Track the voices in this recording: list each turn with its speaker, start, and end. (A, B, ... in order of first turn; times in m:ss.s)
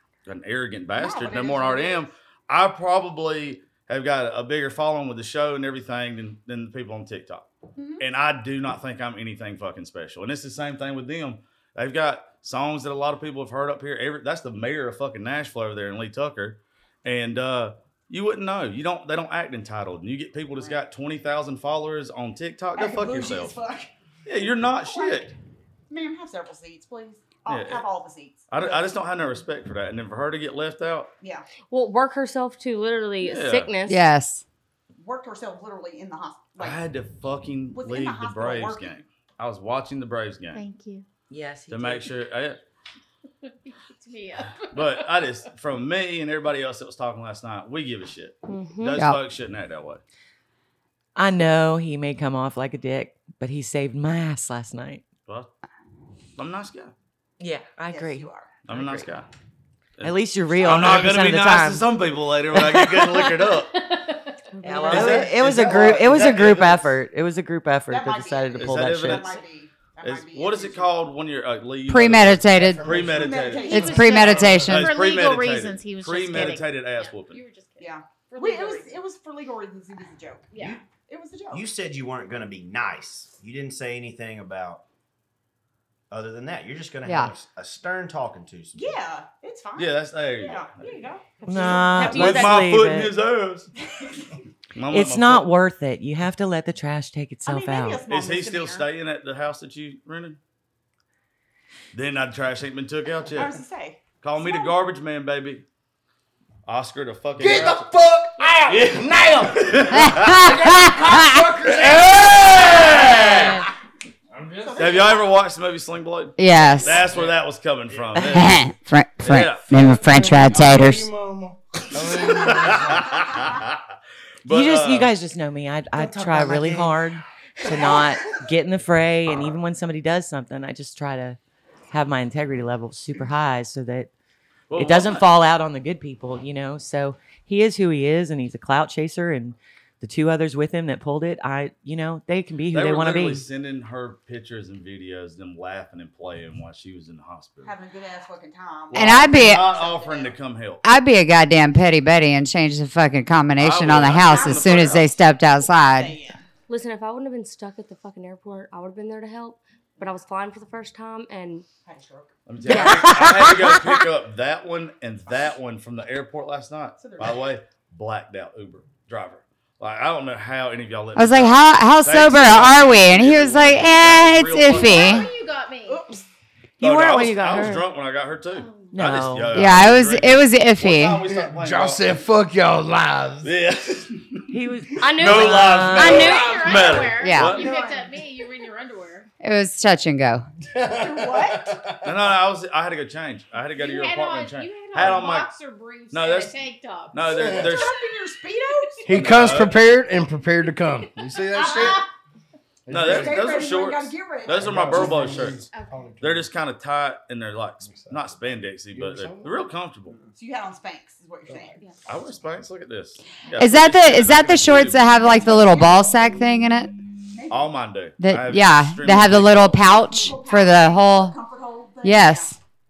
0:00.3-0:07.5 A
0:01.0-0:02.1 B
0:07.8-0:08.0 B
0:08.0-0:23.6 A
0:20.6-0:20.8 B
0:22.8-0:23.9 B
0:24.2-0:25.3 A
0:24.7-0:25.3 B
0:25.9-0:28.9 B
0:27.5-0:27.9 A
0:28.5-0:31.1 A
0:31.7-0:34.0 C
0:33.2-0:33.7 A
0:33.9-0:34.4 D
0:35.0-0:36.8 B
0:36.6-0:40.6 A
0:37.8-0:39.0 B
0:40.5-0:41.0 E
0:41.3-0:42.1 F
0:41.7-0:42.6 A
0:43.7-0:45.1 E
0:44.7-0:50.0 A
0:48.5-0:49.0 C
0:49.0-0:49.2 D
0:51.2-0:55.0 F
0:56.4-0:56.9 A
0:57.4-0:59.1 F
0:57.8-0:58.6 B
0:58.7-0:59.3 A
1:00.0-1:03.7 A
1:00.0-1:02.0 F
1:02.5-1:03.4 F
1:04.6-1:09.5 F
1:04.8-1:05.0 C
1:04.9-1:06.9 A
1:05.4-1:06.7 G
1:07.9-1:10.9 B
1:08.6-1:09.4 A
1:10.0-1:17.4 A
1:11.9-1:13.0 D
1:12.6-1:13.5 H
1:12.9-1:14.4 B
1:13.6-1:19.0 E
1:13.7-1:15.0 D
1:14.3-1:14.6 H
1:17.8-1:21.7 B
1:20.5-1:20.8 E
1:20.6-1:20.8 G
1:21.5-1:24.8 G
1:26.1-1:29.0 G
1:27.1-1:27.3 D
1:28.8-1:32.2 B
1:29.8-1:31.1 A
1:31.4-1:33.2 F
1:31.5-1:32.6 C
1:32.0-1:33.7 A
1:33.8-1:34.3 B
1:34.8-1:35.5 A
1:34.9-1:38.0 F
1:37.5-1:38.9 B
1:38.1-1:40.4 A
1:41.9-1:43.6 A
1:43.3-1:44.7 B
1:44.2-1:45.6 A
1:46.7-1:47.9 A
1:47.4-1:53.6 H
1:48.7-1:50.5 A
1:49.9-1:51.4 D
1:51.7-1:53.6 A
1:54.3-1:55.1 H
1:54.6-1:55.3 B
1:54.8-1:58.6 A
1:56.4-1:57.0 D
1:57.0-1:57.3 G
1:57.9-1:58.2 G
1:58.2-2:01.1 D
1:59.2-1:59.7 A
1:59.7-2:03.4 H
2:02.2-2:03.9 A
2:04.4-2:05.1 A
2:04.5-2:11.4 F
2:06.0-2:07.0 G
2:11.9-2:14.1 F
2:14.7-2:15.2 A
2:14.7-2:23.5 F
2:22.7-2:27.7 A
2:27.6-2:30.4 B
2:28.9-2:30.8 A
2:28.9-2:29.8 D
2:30.8-2:36.2 D
2:33.6-2:35.1 A
2:34.0-2:36.4 B
2:36.7-2:41.6 C
2:40.0-2:40.2 B
2:41.8-2:42.3 B
2:42.5-2:55.2 A
2:42.7-2:44.0 F
2:42.7-2:43.0 D
2:47.0-2:47.5 B
2:51.2-2:55.3 D
2:54.7-2:56.2 E
2:55.8-2:56.2 B
2:56.8-2:57.9 F
2:56.8-3:02.1 A
2:58.5-2:59.0 E
2:58.9-2:59.8 F
2:59.5-3:01.2 D
3:01.3-3:03.5 H
3:03.4-3:04.5 A
3:04.5-3:06.4 F
3:05.0-3:06.7 C
3:05.2-3:07.7 A
3:06.0-3:09.3 E
3:06.5-3:06.9 H
3:07.2-3:07.6 D
3:07.5-3:08.2 B
3:09.4-3:10.4 D
3:10.7-3:12.1 H
3:10.9-3:11.9 B
3:12.0-3:15.5 A
3:13.7-3:17.4 E
3:16.1-3:16.6 A
3:17.1-3:18.0 A
3:17.3-3:17.7 H
3:17.4-3:19.2 B
3:19.0-3:22.0 H
3:19.1-3:19.8 A
3:21.5-3:22.1 E
3:21.5-3:22.1 B
3:22.9-3:23.5 H
3:22.9-3:25.6 A
3:23.0-3:25.5 B
3:24.5-3:26.5 H
3:25.7-3:25.9 E
3:26.2-3:30.1 A
3:27.9-3:28.3 H
3:28.9-3:29.5 H
3:30.4-3:31.9 B
3:32.1-3:35.3 A
3:33.6-3:36.9 D
3:35.2-3:36.4 B
3:37.1-3:37.7 B
3:37.5-3:39.9 A
3:38.2-3:41.4 D
3:39.9-3:42.6 B
3:42.0-3:42.6 D